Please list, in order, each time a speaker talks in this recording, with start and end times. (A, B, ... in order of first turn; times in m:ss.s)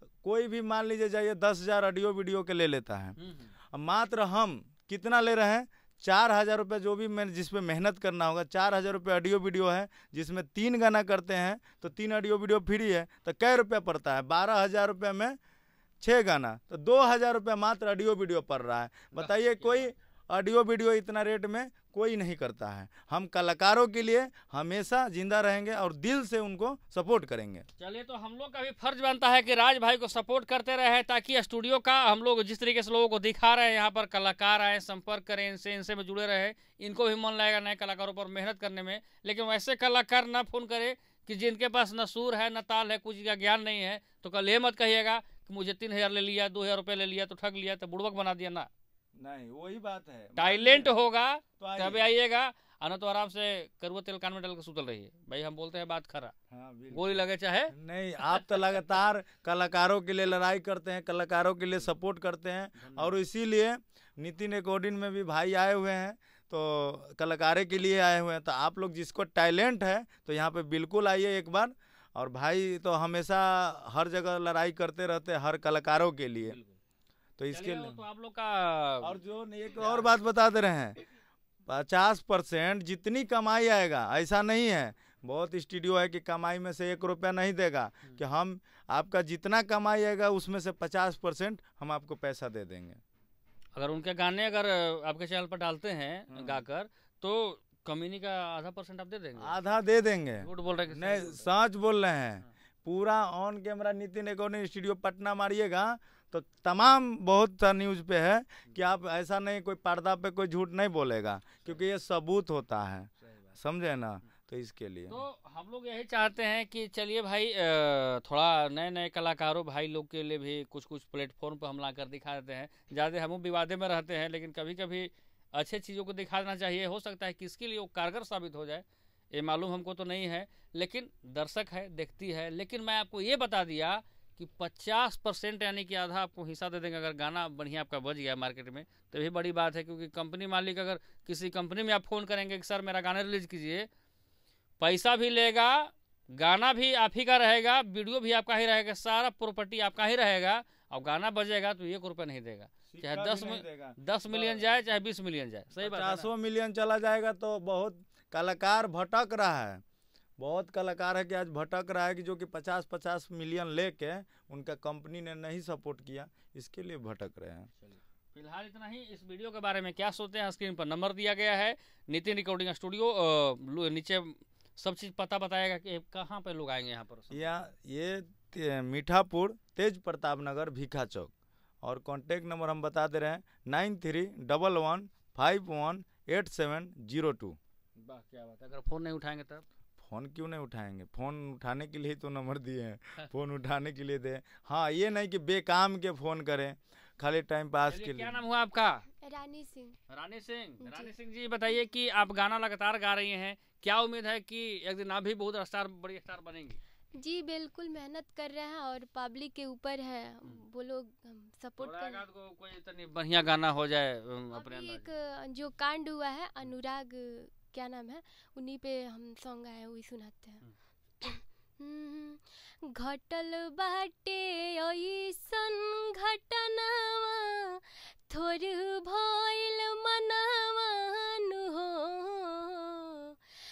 0:00.2-0:03.2 A
0:03.2-0:03.5 B
0:03.7-0:15.4 A
0:16.0-0:27.6 A
0:19.1-0:19.9 B
0:27.8-0:48.7 B
0:49.2-0:50.9 A
0:50.4-0:56.3 B
0:51.6-0:52.1 A
0:56.5-1:16.6 A
0:56.9-0:57.7 B
1:02.8-1:03.2 B
1:16.4-1:16.8 B
1:17.4-1:18.0 A
1:17.5-1:19.2 B
1:19.0-1:21.0 A
1:19.8-1:20.1 B
1:21.7-1:33.0 A
1:33.7-1:39.6 B
1:36.3-1:36.6 A
1:39.4-1:55.2 A
1:40.4-1:41.5 B
1:48.6-1:48.9 B
1:53.2-1:53.5 B
1:55.1-2:23.9 B
2:24.8-2:36.3 B
2:32.9-2:34.6 A
2:35.8-2:39.8 A
2:40.4-2:47.7 A
2:47.8-2:57.5 B
2:57.3-3:01.3 A
3:01.8-3:07.6 A
3:08.0-3:09.6 B
3:10.0-3:18.4 A
3:17.8-3:19.0 B
3:19.2-3:20.0 C
3:20.1-3:26.8 B
3:20.8-3:21.1 C
3:27.2-3:32.2 C
3:31.8-3:35.1 B
3:34.5-3:40.6 C
3:41.2-3:53.4 C